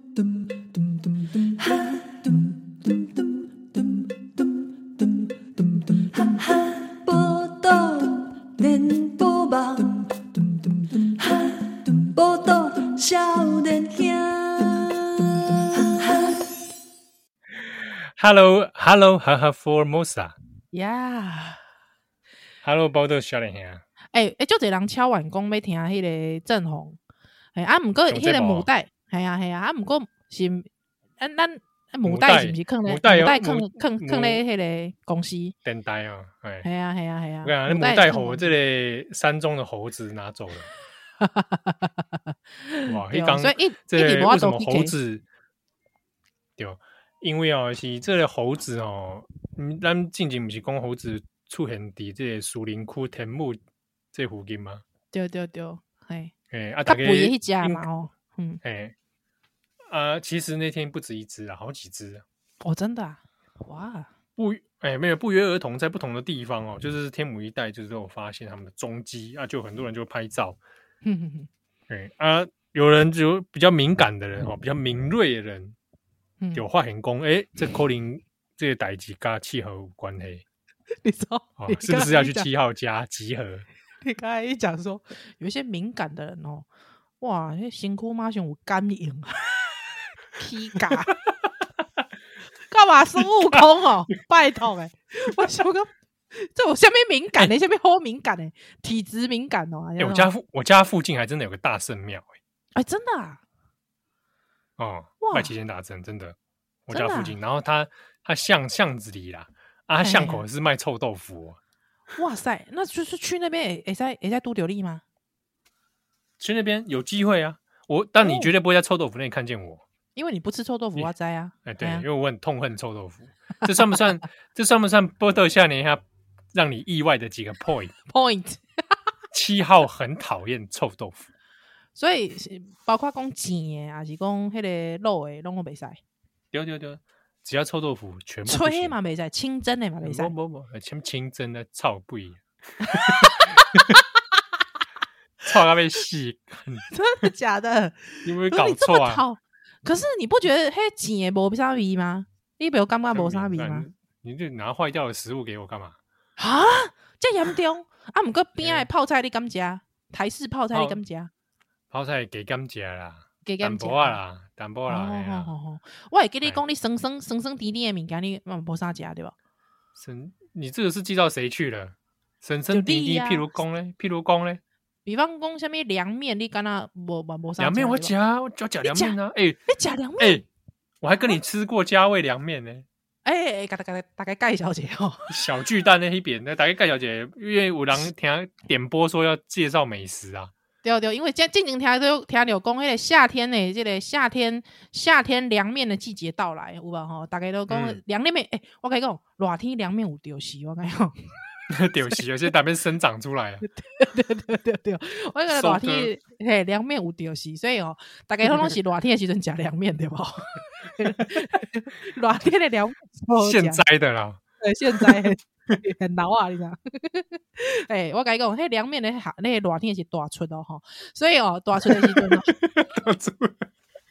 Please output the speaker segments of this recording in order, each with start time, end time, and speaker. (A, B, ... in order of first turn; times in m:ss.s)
0:00.1-0:16.5 A
0:17.6-0:20.4 B
0:20.7-0:21.6 C
0:22.6-0:23.8 B
0:24.1-0:27.0 C
0:27.6-0:30.7 C
0:28.1-0:28.7 B
0:31.2-0:35.6 C
0:32.0-0:34.4 B
0:35.6-0:36.7 B
0:36.6-0:38.6 C
0:37.4-0:40.7 B
0:41.2-0:42.0 C
0:42.6-0:45.0 C
0:42.9-0:45.2 B
0:46.6-0:53.6 B
0:54.1-0:54.8 B
0:55.1-0:56.3 C
0:56.5-0:57.9 B
0:56.9-0:58.6 C
0:58.6-0:59.0 B
0:59.9-1:02.2 B
1:02.6-1:04.1 C
1:04.4-1:10.6 B
1:11.0-1:11.5 C
1:11.9-1:15.8 B
1:16.5-1:20.4 B
1:21.0-1:22.5 C
1:21.6-1:23.7 B
1:24.0-1:26.7 C
1:27.2-1:29.5 C
1:30.4-1:31.2 C
1:32.7-1:40.3 C
1:40.0-1:42.4 B
1:42.8-1:43.4 C
1:44.8-1:46.4 B
1:45.2-1:45.5 C
1:46.9-1:51.6 B
1:46.9-1:47.4 C
1:50.0-1:50.4 C
1:52.2-1:55.0 C
1:56.4-1:59.8 B
1:58.2-1:58.5 C
2:00.2-2:02.1 C
2:01.6-2:08.0 B
2:08.1-2:08.6 C
2:09.3-2:11.3 B
2:12.0-2:16.0 C
2:16.5-2:19.0 B
2:18.5-2:20.3 C
2:20.0-2:24.0 B
2:25.4-2:26.8 B
2:26.9-2:33.9 C
2:28.2-2:29.2 B
2:33.1-2:36.0 B
2:36.4-2:41.3 C
2:38.6-2:38.9 B
2:40.7-2:41.0 B
2:41.9-2:45.5 B
2:43.4-2:44.2 C
2:44.9-2:49.4 C
2:50.0-2:54.6 B
2:52.7-2:53.5 C
2:55.1-2:58.1 C
2:57.6-2:59.6 B
2:58.8-2:59.2 C
2:59.7-3:00.4 C
3:00.2-3:00.4 B
3:01.0-3:02.9 B
3:03.2-3:05.3 C
3:05.3-3:10.5 B
3:10.8-3:21.1 C
3:17.7-3:18.0 B
3:21.7-3:23.6 B
3:23.7-3:33.8 C
3:25.5-3:26.1 B
3:31.0-3:31.6 B
3:33.4-3:34.4 B
3:34.6-3:42.5 C
3:35.0-3:35.3 B
3:41.8-3:43.7 B